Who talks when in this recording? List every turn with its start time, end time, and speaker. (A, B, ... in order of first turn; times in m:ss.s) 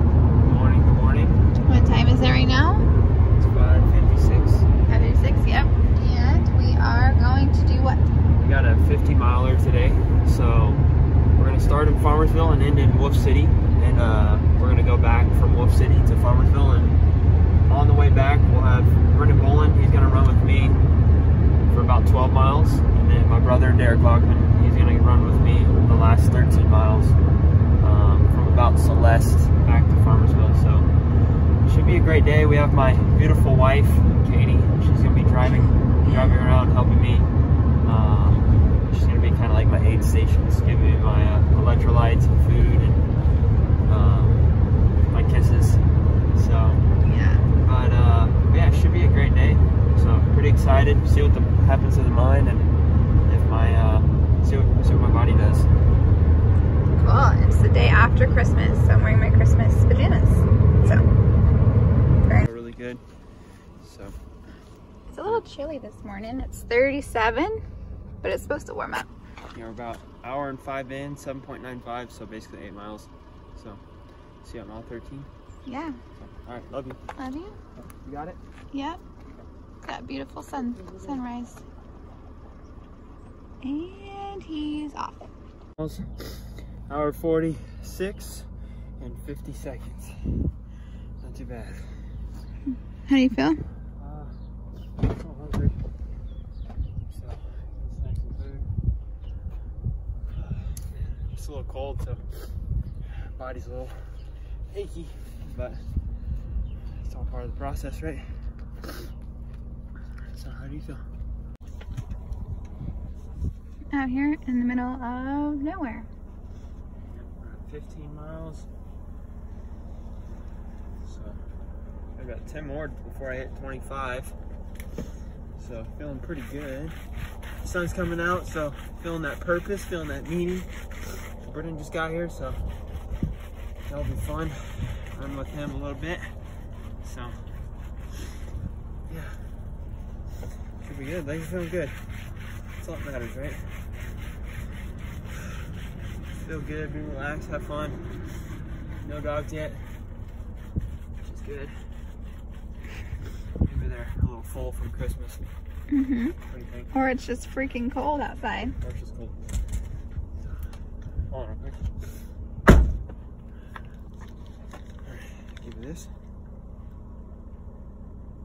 0:00.4-0:01.4 A
0:01.7-0:02.9 B
0:03.4-0:04.7 A
0:04.9-0:08.0 B
0:08.4-0:10.8 A
0:11.4-0:17.0 A
0:17.7-0:20.8 A
0:21.7-0:27.2 A
0:27.8-0:30.9 A
0:31.6-0:37.3 A
0:37.8-0:43.1 A
0:43.9-0:44.5 A
0:45.1-0:45.8 A
0:46.4-0:46.9 A
0:47.0-0:47.5 B
0:47.6-0:52.7 A
0:53.3-0:55.7 A
0:56.9-1:01.0 B
1:02.4-1:03.0 A
1:03.8-1:04.2 A
1:05.1-1:07.6 B
1:08.2-1:09.1 B
1:09.5-1:13.8 A
1:14.4-1:15.3 A
1:15.7-1:16.0 B
1:16.4-1:17.0 A
1:17.2-1:17.6 B
1:18.0-1:18.4 A
1:18.7-1:19.0 B
1:19.8-1:21.6 B
1:23.6-1:25.2 B
1:25.8-1:28.5 A
1:29.0-1:30.5 A
1:31.2-1:32.0 A
1:33.1-1:33.6 B
1:34.0-1:34.4 A
1:35.0-1:35.8 A
1:37.1-1:38.7 A
1:40.4-1:42.2 A
1:43.3-1:44.1 A
1:44.7-1:45.8 A
1:47.0-1:48.4 A
1:50.3-1:51.0 A
1:53.9-1:56.1 B
1:57.1-1:58.7 A
2:01.0-2:01.4 A
2:02.2-2:04.4 A
2:05.6-2:07.0 A
2:07.6-2:10.7 A
2:11.4-2:12.7 A
2:13.9-2:16.4 A
2:17.0-2:17.4 A
2:19.1-2:19.5 A
2:20.8-2:22.1 A
2:22.8-2:23.8 A
2:26.3-2:28.2 A
2:29.0-2:29.8 A
2:31.2-2:31.9 A
2:33.6-2:35.5 A
2:35.9-2:36.4 B
2:36.5-2:36.9 A
2:36.9-2:38.7 B
2:38.6-2:39.4 A
2:41.3-2:41.8 A
2:45.0-2:46.1 A